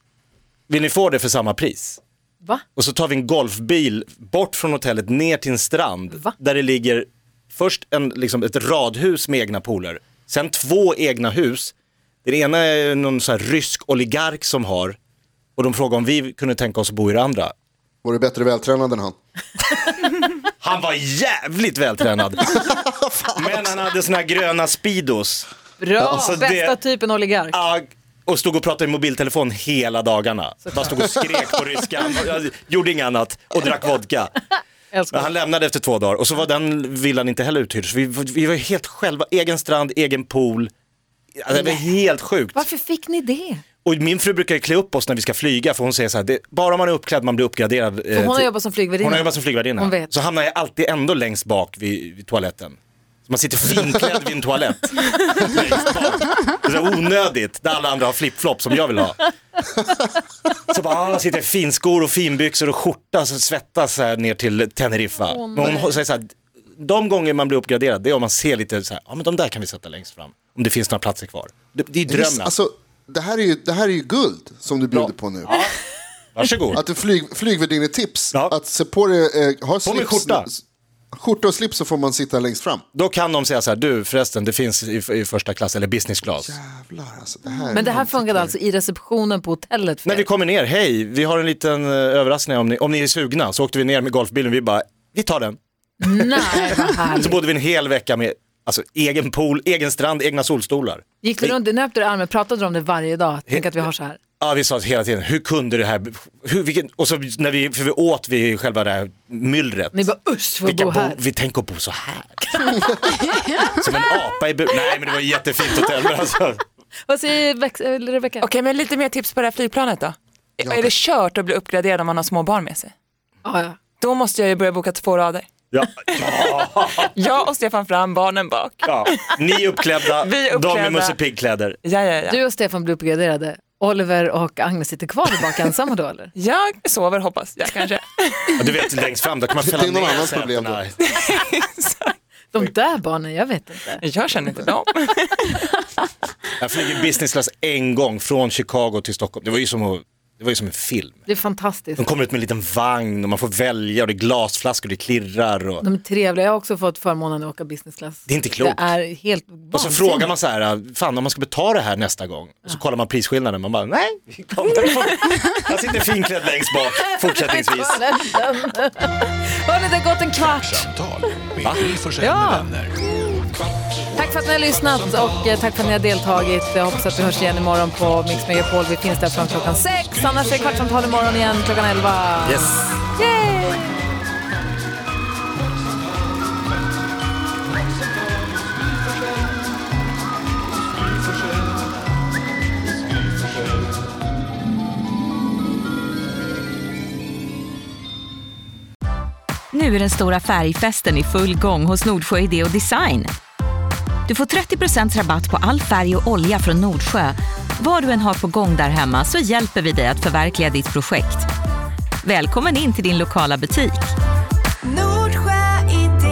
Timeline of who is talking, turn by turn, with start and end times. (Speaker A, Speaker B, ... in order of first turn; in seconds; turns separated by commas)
Speaker A: 0.7-2.0, Speaker A: 2.8-11.7, Speaker A: 12.2-15.0, Speaker A: 15.6-17.5, Speaker B: 18.0-19.2, Speaker A: 20.6-22.6, Speaker B: 22.5-23.7, Speaker A: 23.3-26.8, Speaker C: 25.8-27.6, Speaker A: 27.5-34.4, Speaker C: 30.7-30.9, Speaker C: 34.9-35.3, Speaker A: 35.1-40.7, Speaker A: 41.4-42.7, Speaker C: 41.5-41.8, Speaker C: 42.5-43.6, Speaker A: 43.9-52.8, Speaker C: 48.1-50.1, Speaker A: 53.3-59.3, Speaker A: 60.7-66.3, Speaker C: 65.2-66.0, Speaker B: 65.6-65.8, Speaker A: 66.8-72.5, Speaker B: 72.1-75.6, Speaker A: 74.9-75.7, Speaker A: 76.3-76.8, Speaker B: 76.7-82.8, Speaker A: 79.8-80.5, Speaker A: 82.9-86.6, Speaker B: 86.4-88.5, Speaker C: 87.7-90.3, Speaker A: 90.0-95.6, Speaker C: 96.0-97.4, Speaker A: 96.2-101.5, Speaker C: 101.2-104.2, Speaker A: 104.4-110.1, Speaker C: 109.9-111.2, Speaker A: 110.7-112.8, Speaker C: 112.7-113.3, Speaker A: 113.6-116.6, Speaker C: 117.1-118.5, Speaker D: 118.4-122.9, Speaker B: 120.6-120.9, Speaker C: 123.4-123.8, Speaker D: 124.0-125.5, Speaker A: 125.7-127.1, Speaker D: 127.0-129.4, Speaker A: 128.8-131.8, Speaker D: 130.1-131.2, Speaker D: 131.8-132.4, Speaker C: 132.3-136.3, Speaker D: 136.3-138.7, Speaker A: 138.6-140.9, Speaker B: 139.6-140.8, Speaker D: 141.1-142.2, Speaker C: 142.5-144.0, Speaker D: 144.0-145.7, Speaker A: 146.6-151.2, Speaker C: 151.3-152.0, Speaker A: 152.0-155.8, Speaker C: 155.8-160.3, Speaker A: 158.3-158.9, Speaker A: 159.7-168.0, Speaker C: 166.9-170.8, Speaker E: 170.3-173.0, Speaker A: 171.6-171.9, Speaker C: 172.2-172.7, Speaker C: 174.1-184.1, Speaker A: 182.4-183.0, Speaker F: 199.7-203.3, Speaker F: 204.3-211.5, Speaker F: 212.2-214.1, Speaker F: 215.3-215.8